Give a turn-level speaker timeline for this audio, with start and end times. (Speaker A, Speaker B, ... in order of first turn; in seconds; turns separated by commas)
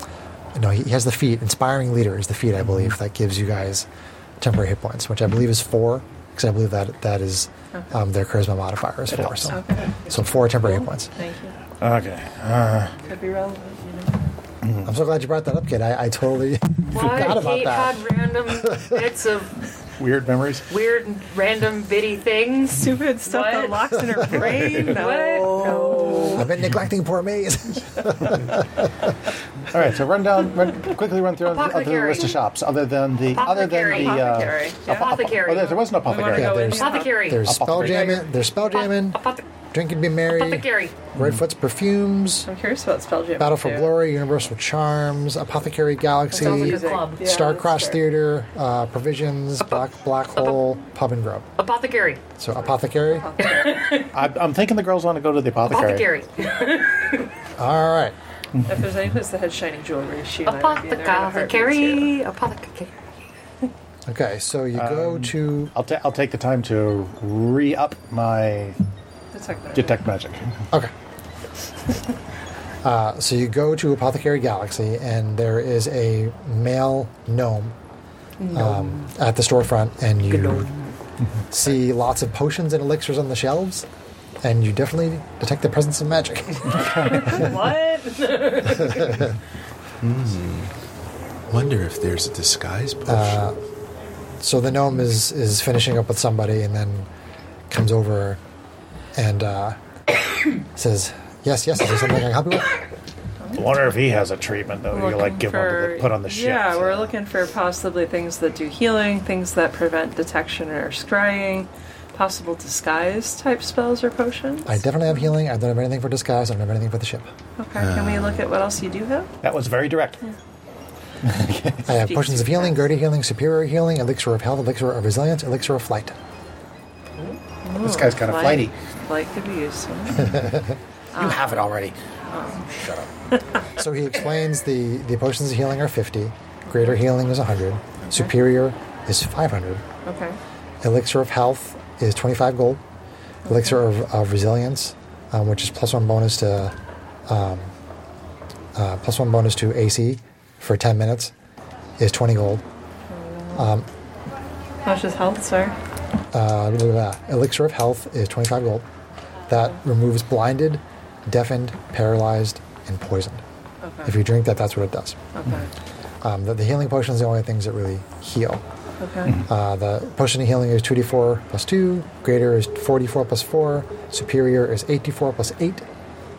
Speaker A: 0.5-3.9, Speaker A: 4.4-11.1, Speaker B: 9.1-9.6, Speaker C: 9.5-9.9, Speaker C: 10.6-11.6, Speaker B: 11.8-12.9, Speaker C: 13.1-14.3, Speaker B: 14.6-14.9, Speaker A: 14.8-19.0, Speaker D: 16.9-19.6, Speaker B: 20.0-20.7, Speaker D: 20.7-26.4, Speaker C: 22.7-26.4, Speaker B: 24.6-24.9, Speaker B: 25.9-26.2, Speaker A: 26.3-28.9, Speaker B: 29.7-36.6, Speaker D: 31.4-32.4, Speaker D: 33.3-35.9, Speaker C: 33.8-35.2, Speaker C: 36.0-37.3, Speaker A: 36.3-42.5, Speaker D: 36.6-39.4, Speaker B: 37.4-38.2, Speaker D: 40.3-41.1, Speaker C: 42.5-44.0, Speaker A: 43.4-51.5, Speaker D: 46.3-47.9, Speaker C: 46.3-48.0, Speaker D: 49.6-50.6, Speaker D: 51.6-52.2, Speaker A: 52.4-53.3, Speaker C: 53.0-53.9, Speaker D: 53.4-54.2, Speaker B: 54.1-56.1, Speaker D: 55.7-57.3, Speaker A: 57.6-58.1, Speaker C: 58.6-62.1, Speaker D: 60.5-62.9, Speaker A: 64.1-65.7, Speaker B: 64.7-68.8, Speaker C: 69.3-70.0, Speaker B: 69.7-70.5, Speaker A: 72.8-77.7, Speaker D: 78.4-79.1, Speaker A: 78.5-80.7, Speaker D: 80.2-80.9, Speaker A: 81.5-83.8, Speaker A: 84.4-87.5, Speaker B: 86.7-87.3, Speaker D: 87.2-89.1, Speaker A: 88.7-89.3, Speaker E: 90.0-90.7, Speaker E: 91.5-93.5, Speaker A: 93.1-93.6, Speaker A: 94.4-97.1, Speaker A: 97.7-98.4, Speaker A: 99.1-99.8, Speaker A: 100.7-102.8, Speaker C: 103.4-103.8, Speaker B: 103.5-107.1, Speaker C: 104.9-114.8, Speaker A: 114.7-117.3, Speaker C: 117.6-119.3, Speaker E: 117.7-118.4, Speaker B: 119.4-120.2, Speaker B: 121.2-121.9, Speaker A: 121.8-126.2, Speaker C: 122.0-122.8, Speaker C: 127.6-130.5, Speaker B: 127.8-128.7, Speaker A: 130.2-130.7, Speaker C: 131.1-131.7, Speaker B: 131.2-131.9, Speaker C: 132.3-133.7, Speaker A: 133.7-139.8, Speaker C: 136.7-137.0, Speaker C: 140.0-140.4, Speaker A: 140.8-142.8, Speaker C: 143.4-143.8, Speaker A: 143.4-146.7, Speaker A: 147.3-147.7, Speaker A: 148.7-151.3, Speaker A: 152.0-152.6, Speaker C: 153.1-153.7, Speaker A: 153.5-153.9, Speaker C: 154.8-155.8, Speaker A: 156.3-158.8, Speaker A: 159.5-163.4, Speaker C: 163.8-164.2, Speaker A: 164.0-165.2, Speaker C: 165.3-165.7, Speaker A: 166.2-168.6, Speaker C: 169.0-169.4, Speaker A: 169.4-175.8